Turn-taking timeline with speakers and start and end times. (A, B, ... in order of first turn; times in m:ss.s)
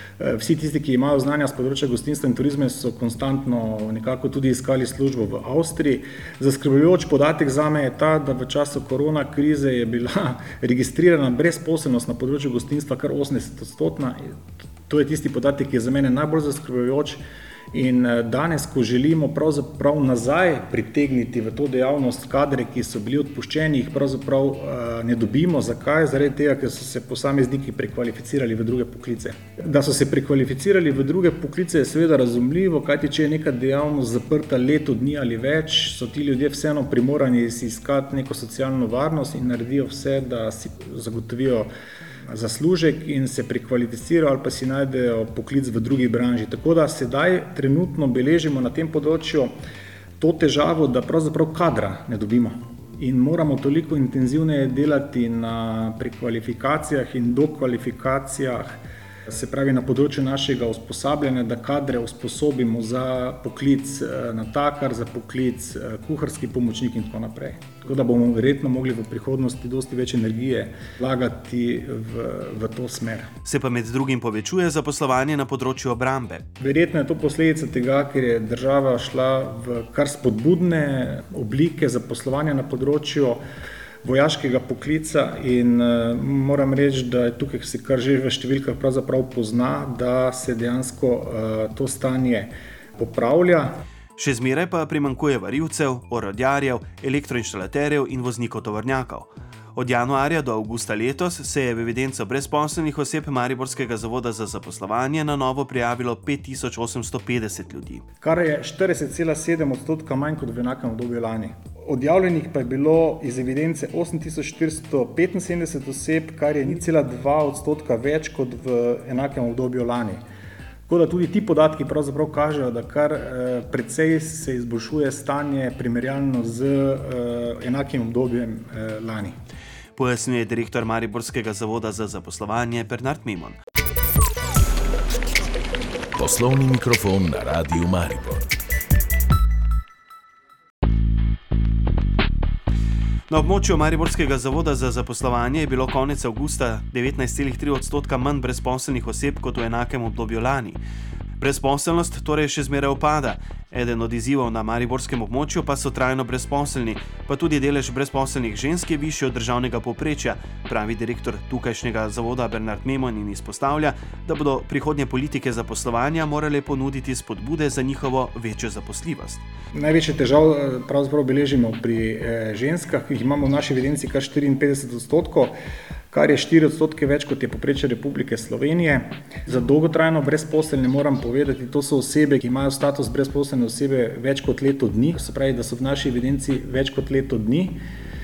0:00.2-0:14.4 A
0:14.9-0:17.2 A
0:17.7-0:41.7 A
0:42.3-0:49.5 A
0:50.2-1:13.3 A
1:13.4-1:16.4 B
1:16.6-1:23.4 A
1:24.0-1:33.8 A
1:34.2-1:48.0 B
1:48.2-2:00.2 A
2:00.9-2:09.4 A
2:10.0-2:13.6 B
2:16.2-2:18.5 C
2:23.3-2:30.8 B
2:31.4-2:49.4 B
2:49.7-2:55.6 A
2:56.1-3:07.8 A